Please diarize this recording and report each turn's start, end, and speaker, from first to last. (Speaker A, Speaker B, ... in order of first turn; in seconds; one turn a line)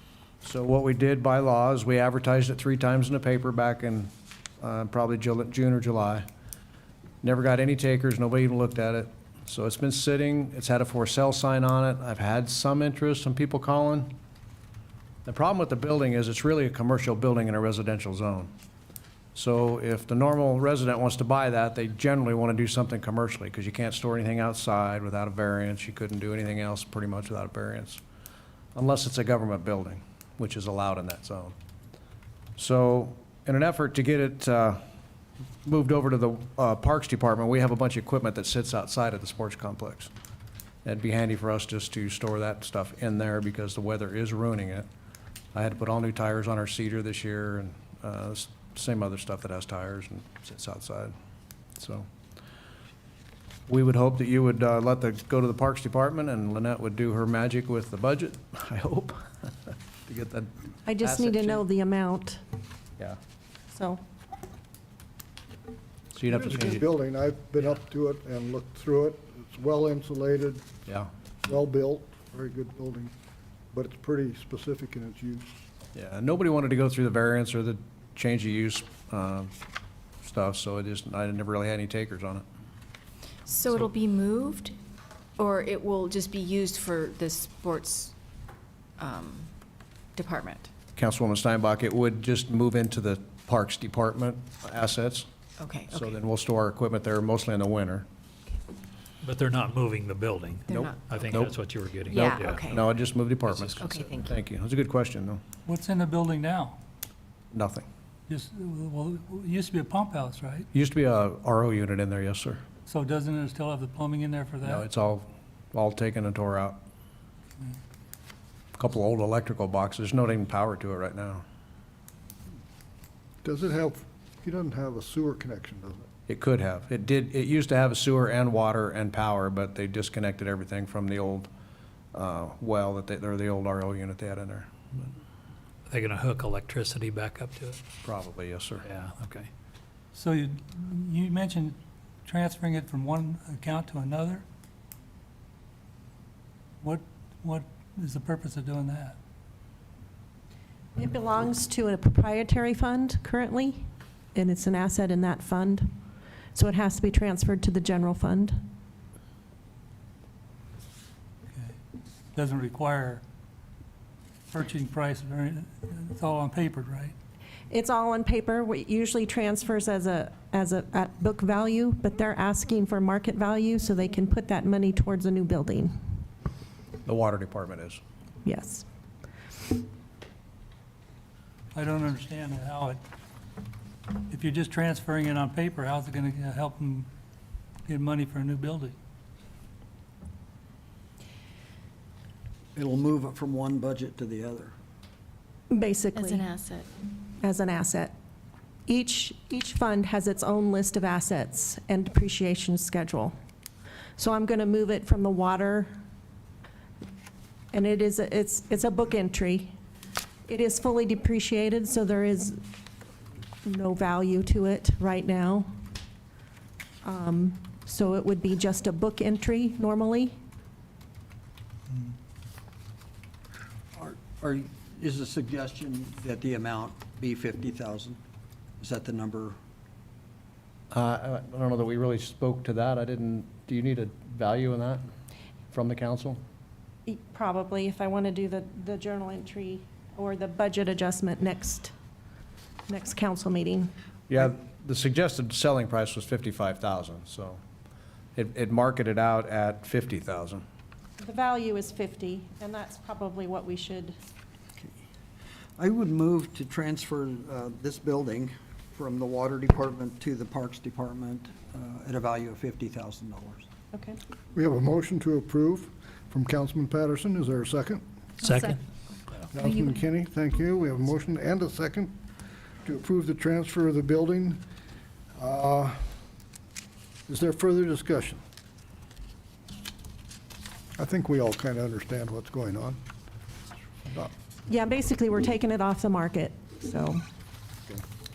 Speaker A: 0.4-6.3
Speaker A: 7.2-14.1
Speaker A: 15.2-18.5
Speaker A: 19.4-28.0
Speaker A: 28.8-31.6
Speaker A: 32.6-34.8
Speaker A: 35.6-40.1
Speaker A: 40.9-44.9
Speaker A: 45.5-51.1
Speaker A: 51.8-52.1
Speaker A: 53.7-59.5
Speaker A: 60.1-61.6
Speaker B: 60.9-62.4
Speaker B: 63.7-64.0
Speaker A: 66.1-66.8
Speaker C: 66.3-70.7
Speaker C: 71.4-73.1
Speaker C: 73.7-75.5
Speaker A: 76.0-79.5
Speaker A: 80.2-82.4
Speaker D: 83.5-84.8
Speaker D: 85.4-88.2
Speaker D: 89.0-89.5
Speaker D: 90.2-90.7
Speaker A: 91.0-95.3
Speaker D: 95.6-96.2
Speaker A: 95.9-98.1
Speaker E: 99.2-102.8
Speaker D: 100.7-101.0
Speaker A: 100.7-101.5
Speaker D: 102.1-102.8
Speaker A: 102.2-105.4
Speaker E: 103.5-103.8
Speaker D: 103.8-104.3
Speaker F: 105.7-106.8
Speaker A: 107.5-107.9
Speaker F: 108.3-110.7
Speaker A: 110.7-112.6
Speaker F: 112.9-114.9
Speaker A: 114.6-116.8
Speaker A: 118.8-121.5
Speaker C: 123.4-126.0
Speaker A: 126.3-131.5
Speaker A: 132.1-135.1
Speaker E: 135.9-137.8
Speaker A: 138.0-138.8
Speaker E: 138.8-139.5
Speaker F: 140.1-144.4
Speaker F: 146.8-149.2
Speaker B: 151.0-155.9
Speaker B: 156.5-158.6
Speaker F: 162.3-163.2
Speaker F: 164.5-167.1
Speaker B: 167.7-175.9
Speaker A: 177.1-178.0
Speaker B: 178.4-178.9
Speaker F: 181.7-183.0
Speaker F: 184.3-187.1
Speaker F: 187.9-188.9
Speaker G: 192.8-194.7
Speaker B: 195.7-196.5
Speaker D: 196.1-196.9
Speaker B: 197.4-198.1
Speaker B: 198.9-203.3
Speaker B: 204.2-205.9
Speaker B: 207.7-209.7
Speaker B: 210.5-212.6
Speaker B: 213.7-215.7
Speaker B: 217.0-220.4
Speaker G: 224.0-228.2
Speaker G: 228.8-229.6
Speaker A: 230.9-235.0
Speaker A: 235.7-236.4
Speaker B: 237.1-241.9
Speaker B: 242.9-243.9
Speaker A: 244.3-247.6
Speaker A: 248.4-250.6
Speaker B: 251.2-254.2
Speaker G: 255.8-263.6
Speaker B: 263.9-264.2
Speaker C: 264.6-268.0
Speaker E: 268.4-268.8
Speaker C: 269.5-272.1
Speaker C: 272.8-274.6
Speaker C: 275.4-276.1
Speaker C: 277.3-278.4
Speaker C: 281.0-283.0
Speaker C: 284.1-284.3
Speaker B: 284.7-287.2